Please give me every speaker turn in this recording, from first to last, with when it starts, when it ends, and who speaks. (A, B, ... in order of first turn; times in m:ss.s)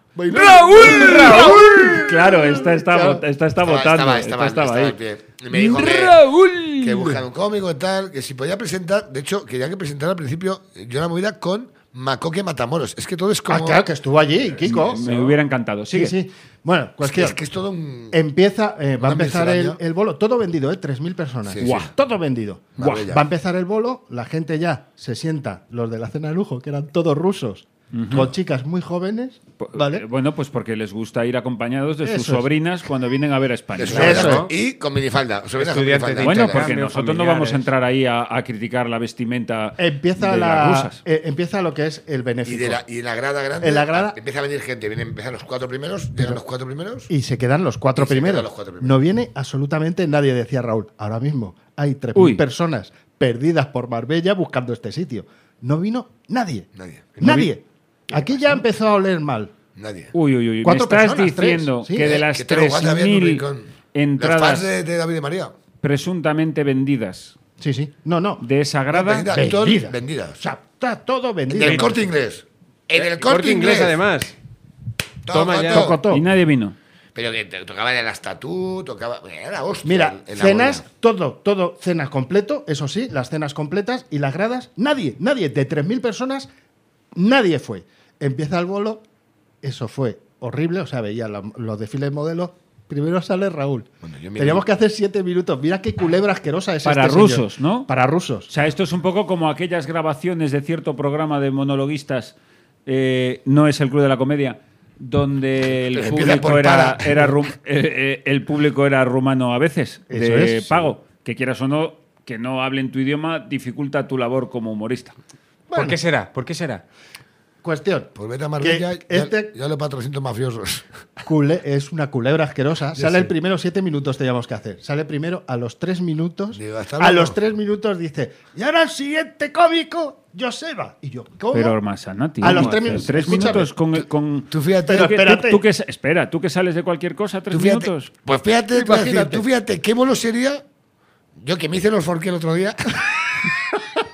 0:00.2-0:03.2 A
0:00.2-0:02.0 B
0:00.3-0:05.0 C
0:03.6-0:06.2 B
0:05.5-0:07.2 C
0:06.8-0:13.9 B
0:13.5-0:15.0 A
0:14.6-0:16.1 C
0:14.7-0:15.3 B
0:15.9-0:17.4 A
0:17.0-0:18.2 B
0:18.1-0:30.0 A
0:19.0-0:19.8 B
0:21.4-0:21.9 B
0:21.6-0:21.9 C
0:22.8-0:23.2 B
0:22.8-0:23.1 C
0:27.9-0:28.3 C
0:29.6-0:34.3 C
0:32.0-0:32.5 A
0:33.8-0:36.7 B
0:33.9-0:34.5 A
0:33.9-0:34.5 D
0:35.6-0:37.7 D
0:36.2-0:41.0 C
0:39.8-0:42.8 A
0:42.4-0:47.1 B
0:43.6-0:44.2 A
0:47.1-0:59.5 A
0:48.0-0:49.0 B
0:52.1-0:52.4 C
0:56.7-0:57.2 B
0:57.2-0:57.5 C
0:59.7-1:00.1 B
1:00.1-1:04.7 C
1:00.6-1:02.1 A
1:02.0-1:05.5 B
1:05.8-1:07.3 C
1:07.6-1:08.4 A
1:08.4-1:09.3 C
1:08.9-1:10.4 B
1:09.3-1:12.0 A
1:11.5-1:14.0 B
1:11.6-1:11.9 D
1:13.0-1:14.3 D
1:15.2-1:16.0 B
1:15.3-1:15.9 D
1:15.7-1:16.2 A
1:16.1-1:16.8 C
1:17.1-1:20.8 B
1:19.8-1:26.5 A
1:27.2-1:29.0 A
1:29.6-1:38.5 A
1:34.0-1:34.6 B
1:36.8-1:37.9 C
1:38.5-1:55.1 C
1:45.9-1:47.3 B
1:50.1-1:50.9 A
1:55.7-1:56.0 A
1:55.7-1:56.8 D
1:57.6-1:59.5 A
1:58.1-2:00.8 B
2:01.2-2:11.8 A
2:03.0-2:03.3 B
2:06.5-2:07.4 B
2:11.5-2:18.1 C
2:12.4-2:13.7 A
2:13.3-2:15.1 B
2:14.9-2:15.6 A
2:17.5-2:20.6 B
2:18.8-2:19.4 A
2:21.4-2:23.5 B